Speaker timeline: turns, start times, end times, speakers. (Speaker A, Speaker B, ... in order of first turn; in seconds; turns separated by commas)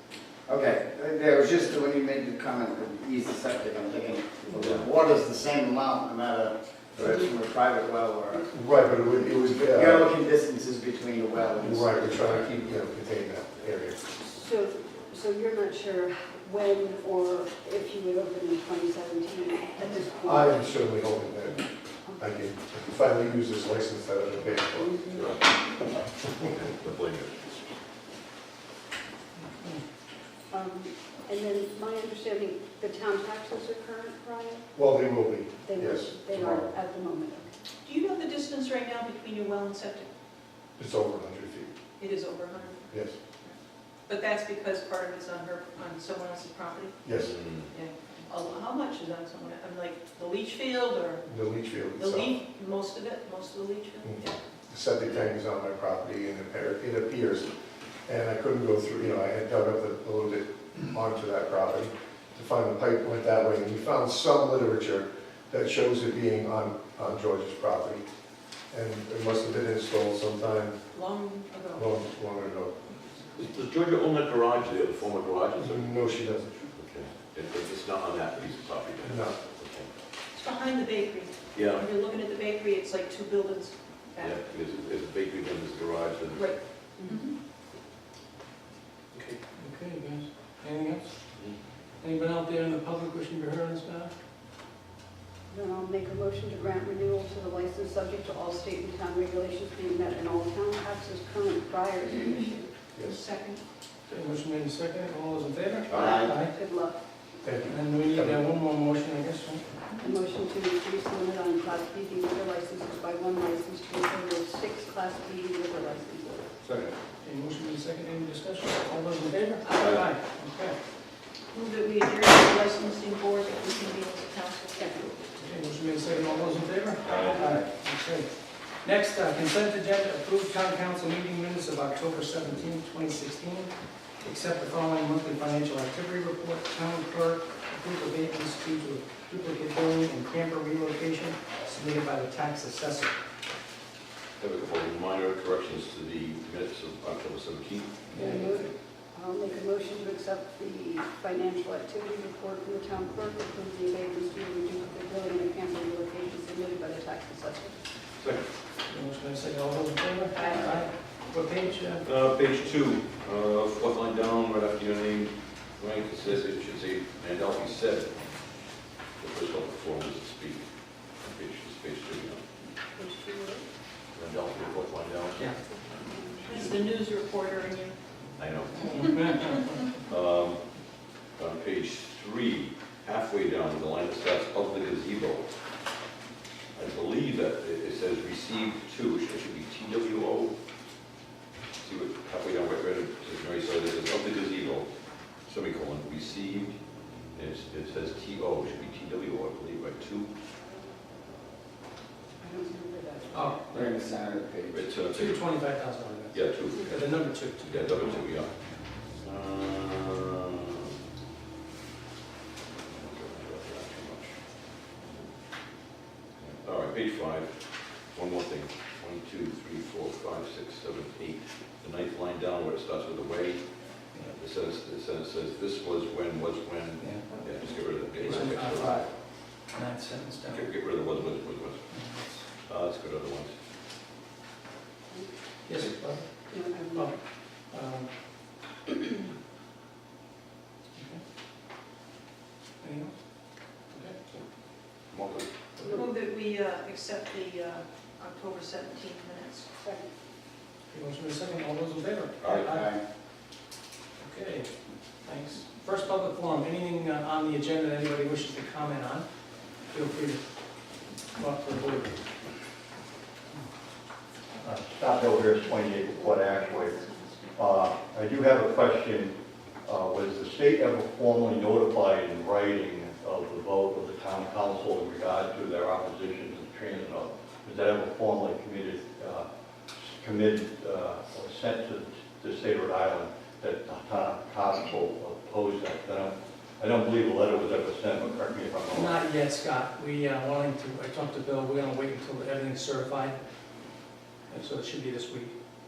Speaker A: 0.5-8.5, Speaker B: 4.6-4.9, Speaker C: 8.5-10.1, Speaker A: 9.6-12.3, Speaker C: 11.6-14.1, Speaker B: 12.2-12.7, Speaker D: 14.1-20.6, Speaker C: 20.2-21.6, Speaker D: 22.1-22.3, Speaker C: 22.2-25.3, Speaker B: 25.1-25.4, Speaker B: 26.4-27.5, Speaker D: 30.5-34.6, Speaker C: 34.7-36.8, Speaker D: 35.5-37.5, Speaker E: 37.8-40.1, Speaker C: 40.8-41.7, Speaker E: 42.0-47.1, Speaker C: 42.9-43.1, Speaker C: 47.0-47.4, Speaker B: 47.1-47.7, Speaker E: 47.7-51.3, Speaker C: 51.2-52.3, Speaker E: 51.9-54.4, Speaker C: 54.0-57.5, Speaker C: 58.0-68.0, Speaker C: 68.7-70.8, Speaker E: 70.9-72.1, Speaker C: 71.7-72.7, Speaker B: 73.3-79.9, Speaker C: 75.6-76.7, Speaker C: 79.0-79.3, Speaker E: 80.3-84.4, Speaker B: 81.5-81.8, Speaker B: 84.2-86.5, Speaker E: 86.3-87.4, Speaker D: 86.3-87.1, Speaker F: 89.1-91.3, Speaker F: 92.0-94.1, Speaker D: 95.5-102.7, Speaker C: 102.9-103.2, Speaker E: 103.0-103.6, Speaker F: 104.1-106.5, Speaker A: 105.9-106.4, Speaker D: 106.0-107.0, Speaker C: 107.4-108.4, Speaker F: 107.6-109.7, Speaker E: 109.9-110.1, Speaker D: 110.0-116.5, Speaker B: 116.6-117.0, Speaker F: 117.2-120.8, Speaker B: 119.8-120.1, Speaker E: 121.5-125.3, Speaker D: 124.8-125.0, Speaker F: 125.3-143.1, Speaker B: 127.0-127.4, Speaker B: 144.4-148.2, Speaker F: 148.1-148.7, Speaker D: 148.2-157.8, Speaker B: 158.2-158.4, Speaker F: 158.9-162.0, Speaker E: 160.3-160.9, Speaker B: 162.0-168.2, Speaker B: 169.2-172.4, Speaker D: 172.9-173.7, Speaker B: 174.1-175.5, Speaker D: 176.0-176.4, Speaker E: 176.4-178.0, Speaker B: 176.4-176.7, Speaker B: 178.3-178.9, Speaker F: 178.8-179.6, Speaker E: 178.8-179.9, Speaker B: 180.1-180.6, Speaker B: 181.4-185.5, Speaker B: 186.7-190.5, Speaker B: 191.8-194.9, Speaker B: 195.4-196.8, Speaker B: 197.3-200.3, Speaker D: 202.4-203.7, Speaker F: 203.3-203.8, Speaker A: 203.7-204.8, Speaker B: 204.7-205.6, Speaker F: 205.2-207.9, Speaker B: 206.3-208.5, Speaker B: 209.2-210.6, Speaker B: 212.8-214.3, Speaker B: 215.0-215.3, Speaker B: 216.4-229.1, Speaker F: 227.0-227.4, Speaker F: 228.1-229.1, Speaker F: 229.6-230.7, Speaker B: 230.5-232.0, Speaker F: 231.9-232.4, Speaker B: 232.6-233.5, Speaker F: 235.7-236.3, Speaker D: 236.5-237.2, Speaker F: 236.9-238.1, Speaker F: 240.9-241.2, Speaker F: 242.8-243.1, Speaker F: 243.9-244.2, Speaker B: 245.1-245.5, Speaker E: 245.8-249.7, Speaker D: 249.8-250.1, Speaker F: 250.9-252.9, Speaker B: 252.4-252.8, Speaker A: 252.7-253.0, Speaker F: 254.2-254.7, Speaker F: 255.2-259.3, Speaker F: 259.9-260.4, Speaker F: 261.3-262.2, Speaker G: 264.6-267.0, Speaker E: 265.6-267.7, Speaker G: 267.5-289.2, Speaker F: 288.9-293.4, Speaker F: 294.5-295.5